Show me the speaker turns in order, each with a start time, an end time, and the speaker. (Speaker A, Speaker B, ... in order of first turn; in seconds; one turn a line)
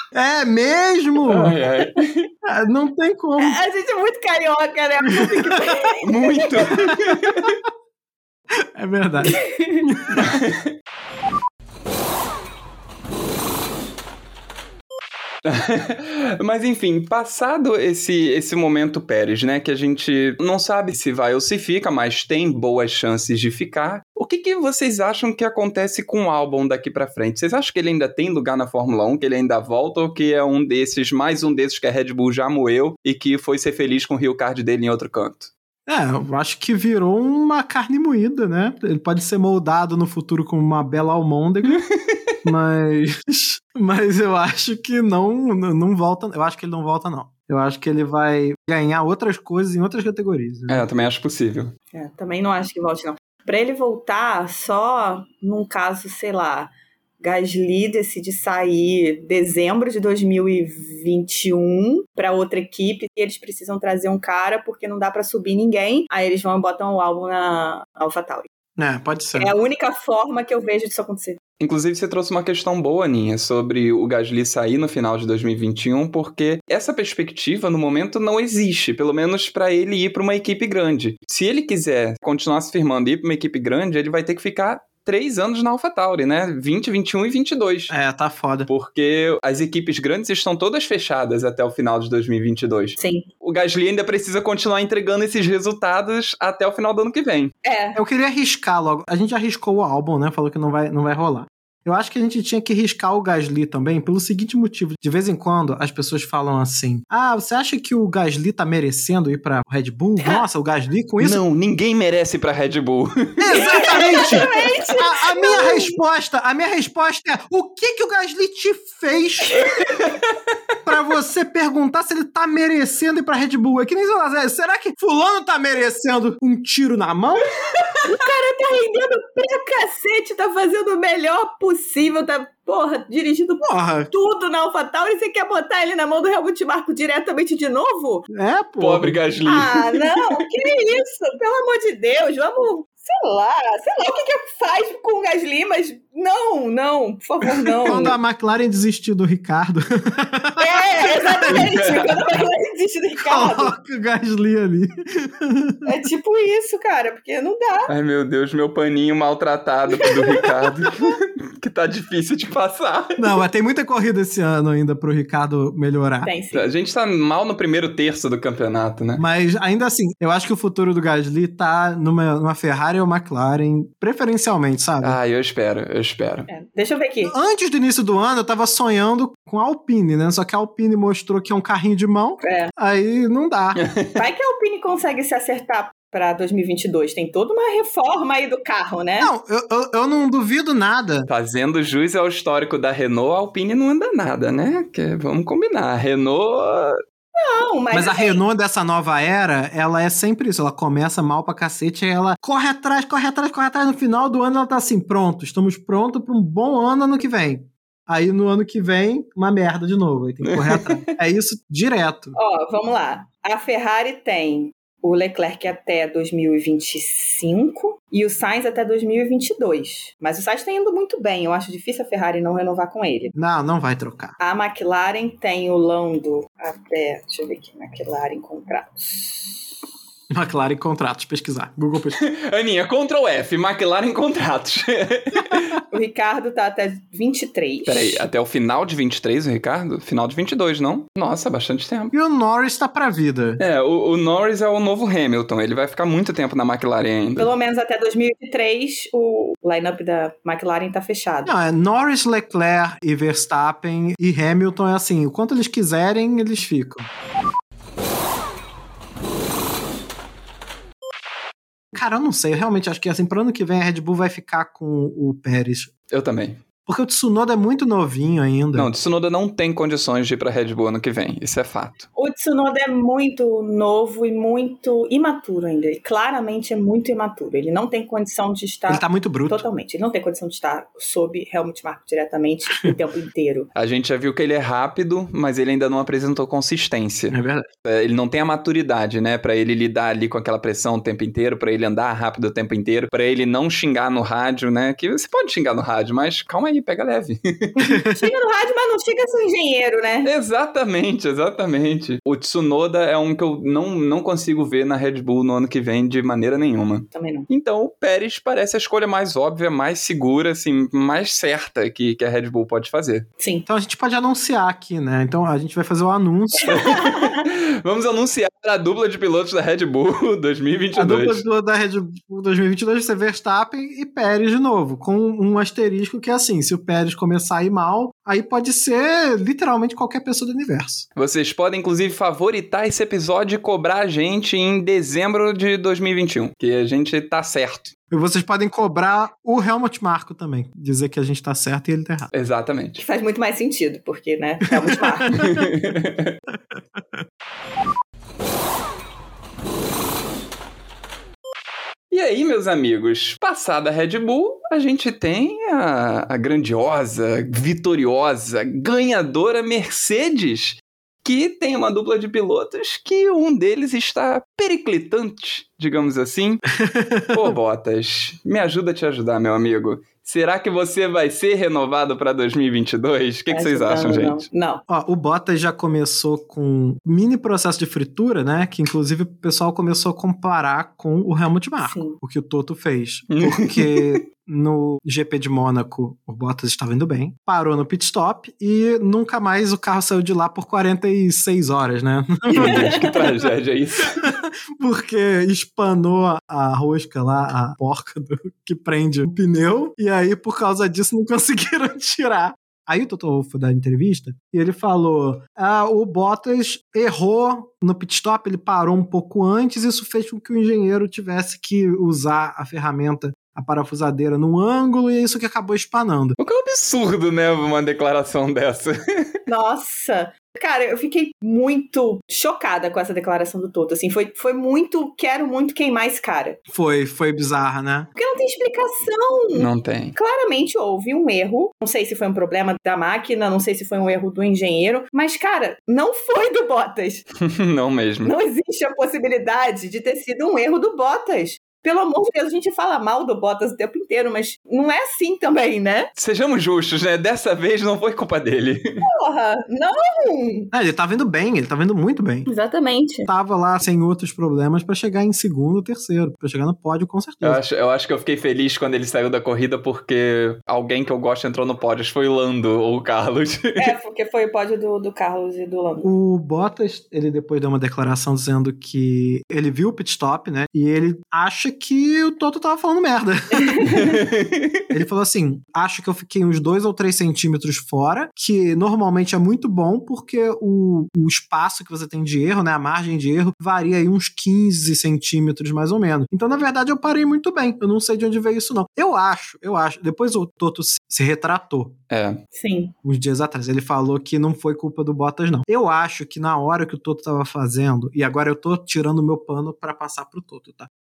Speaker A: 0.1-1.6
Speaker B: 1.3-2.3
Speaker A: 2.4-3.6
Speaker C: 3.4-6.8
Speaker A: 5.1-5.6
Speaker B: 6.0-7.6
Speaker A: 6.8-7.5
Speaker A: 8.8-10.4
Speaker C: 9.2-9.9
Speaker B: 10.2-10.7
Speaker B: 15.4-35.5
Speaker A: 35.9-41.8
Speaker B: 41.6-42.3
Speaker A: 42.4-50.9
Speaker B: 50.7-51.7
Speaker C: 51.9-68.5
Speaker A: 68.8-69.5
Speaker C: 69.4-71.4
Speaker B: 71.6-87.9
Speaker A: 87.9-88.7
Speaker B: 88.7-97.5
Speaker C: 93.0-93.3
Speaker C: 97.6-98.0
Speaker A: 98.0-111.4
Speaker C: 110.2-110.5
Speaker B: 111.2-114.5
Speaker A: 113.4-119.7
Speaker C: 113.5-116.0
Speaker A: 120.8-127.5
Speaker C: 128.0-138.3
Speaker A: 133.6-134.1
Speaker A: 138.3-139.2
Speaker B: 138.8-140.0
Speaker C: 139.5-148.2
Speaker A: 147.8-151.7
Speaker C: 150.6-153.7
Speaker B: 151.5-152.3
Speaker A: 153.2-155.9
Speaker C: 155.8-157.9
Speaker B: 157.9-163.2
Speaker A: 163.2-166.3
Speaker C: 166.2-166.7
Speaker B: 166.5-169.2
Speaker A: 169.2-175.2
Speaker B: 175.0-176.5
Speaker C: 176.5-177.3
Speaker A: 177.3-183.8
Speaker C: 182.4-182.7
Speaker B: 183.8-184.2
Speaker C: 184.2-189.3
Speaker A: 189.2-191.3
Speaker B: 191.3-197.0
Speaker C: 197.4-198.4
Speaker A: 197.9-212.4
Speaker B: 210.4-211.1
Speaker C: 212.3-223.3
Speaker A: 223.3-224.3
Speaker C: 224.4-229.7
Speaker A: 230.3-232.2
Speaker B: 232.2-235.8
Speaker C: 235.9-238.2
Speaker B: 237.9-242.1
Speaker A: 242.1-243.6
Speaker B: 243.6-247.5
Speaker C: 247.4-251.5
Speaker A: 251.5-257.1
Speaker A: 261.9-265.9
Speaker B: 266.1-266.6
Speaker A: 266.9-268.9
Speaker B: 268.8-272.1
Speaker C: 272.1-283.7
Speaker A: 278.9-279.7
Speaker B: 283.8-297.9
Speaker A: 287.3-287.7
Speaker A: 297.8-298.2
Speaker C: 298.1-300.3
Speaker B: 300.2-313.3
Speaker C: 307.1-307.5
Speaker C: 313.4-313.7
Speaker A: 313.7-316.9
Speaker C: 316.6-317.4
Speaker B: 316.7-321.4
Speaker A: 320.9-331.1
Speaker B: 331.2-337.9
Speaker A: 338.1-342.3
Speaker B: 342.3-343.0
Speaker C: 343.0-345.4
Speaker A: 344.9-345.7
Speaker B: 345.3-346.4
Speaker A: 346.5-347.0
Speaker B: 352.1-366.6
Speaker A: 366.8-367.5
Speaker B: 367.3-374.4
Speaker C: 373.5-374.8
Speaker A: 374.9-393.0
Speaker C: 381.8-382.2
Speaker B: 383.3-384.2
Speaker C: 392.5-393.3
Speaker B: 392.5-394.3
Speaker A: 394.2-416.4
Speaker B: 416.4-419.3
Speaker C: 419.5-426.6
Speaker A: 426.7-428.1
Speaker C: 428.2-437.2
Speaker B: 429.6-430.1
Speaker B: 437.4-438.4
Speaker C: 438.2-446.1
Speaker B: 446.2-449.1
Speaker C: 449.0-450.7
Speaker A: 450.7-452.5
Speaker C: 452.5-453.3
Speaker A: 453.3-457.6
Speaker B: 457.4-463.9
Speaker C: 463.8-466.1
Speaker A: 466.0-473.9
Speaker C: 473.5-474.2
Speaker B: 473.9-474.9
Speaker A: 474.9-492.0
Speaker B: 492.1-492.4
Speaker C: 492.5-492.9
Speaker A: 493.0-500.9